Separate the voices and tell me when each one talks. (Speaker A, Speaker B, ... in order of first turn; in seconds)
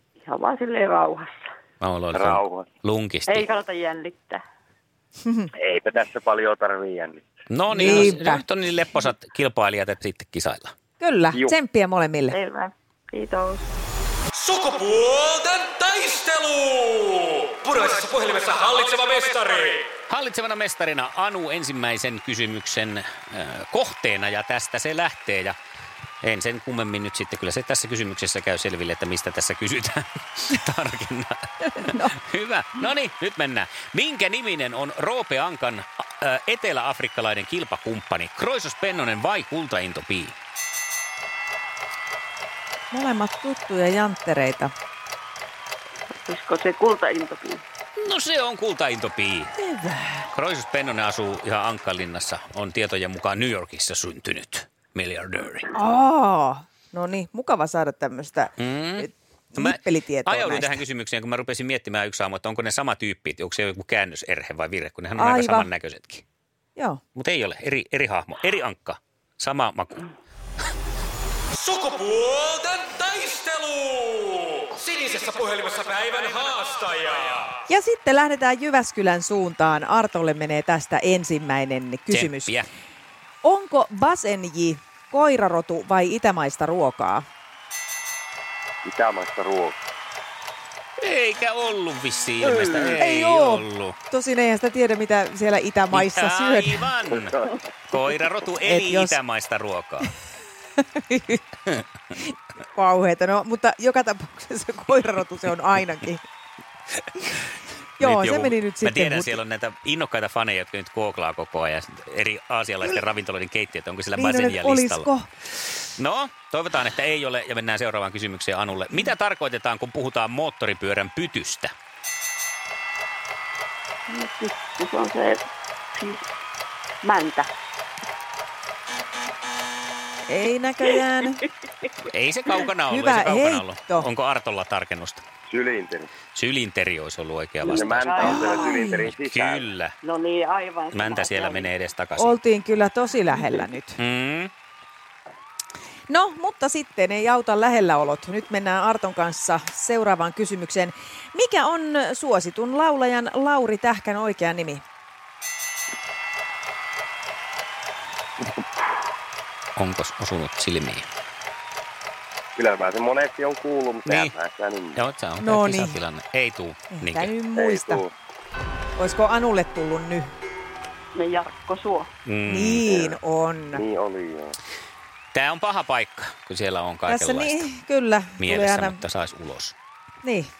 Speaker A: 0.2-1.4, 3.3-4.4, 12.3-13.7, 46.2-47.6, 124.1-126.2, 127.0-127.5, 137.7-138.9, 140.0-141.7, 171.1-172.1
Speaker B: 1.8-3.5, 7.5-10.7, 20.1-25.5, 26.2-40.3, 48.0-49.5, 50.3-55.8, 58.6-66.2, 67.1-70.0, 82.1-82.7, 91.0-94.0, 95.9-100.1, 108.0-115.1, 115.8-121.7, 132.1-135.2, 136.3-138.4, 139.0-139.9, 140.9-142.3, 144.0-144.5, 159.8-161.1, 164.1-164.3, 164.9-167.3, 172.2-172.9, 175.3-177.7, 178.4-179.7
Speaker C: 2.1-2.6, 5.5-7.2, 88.8-89.8, 135.5-136.1, 137.6-139.6, 162.6-165.0, 167.5-168.1, 172.8-173.1, 173.7-174.6
Speaker D: 5.2-5.5, 7.7-8.4, 11.0-12.3, 31.8-32.1, 42.9-44.7, 49.6-50.3, 55.7-60.8, 65.2-65.7, 66.8-67.0, 77.7-82.5, 83.4-87.2, 93.0-96.8, 98.6-99.2, 100.8-101.5, 102.1-106.2, 108.0-109.4, 114.2-115.3, 130.3-131.4, 132.9-134.1, 138.2-139.0, 142.2-144.0, 146.1-154.8, 165.4-166.0, 166.9-168.0, 169.0-170.3, 172.4-173.8, 177.1-179.0, 180.2-180.5
Speaker E: 14.3-19.9, 71.5-77.5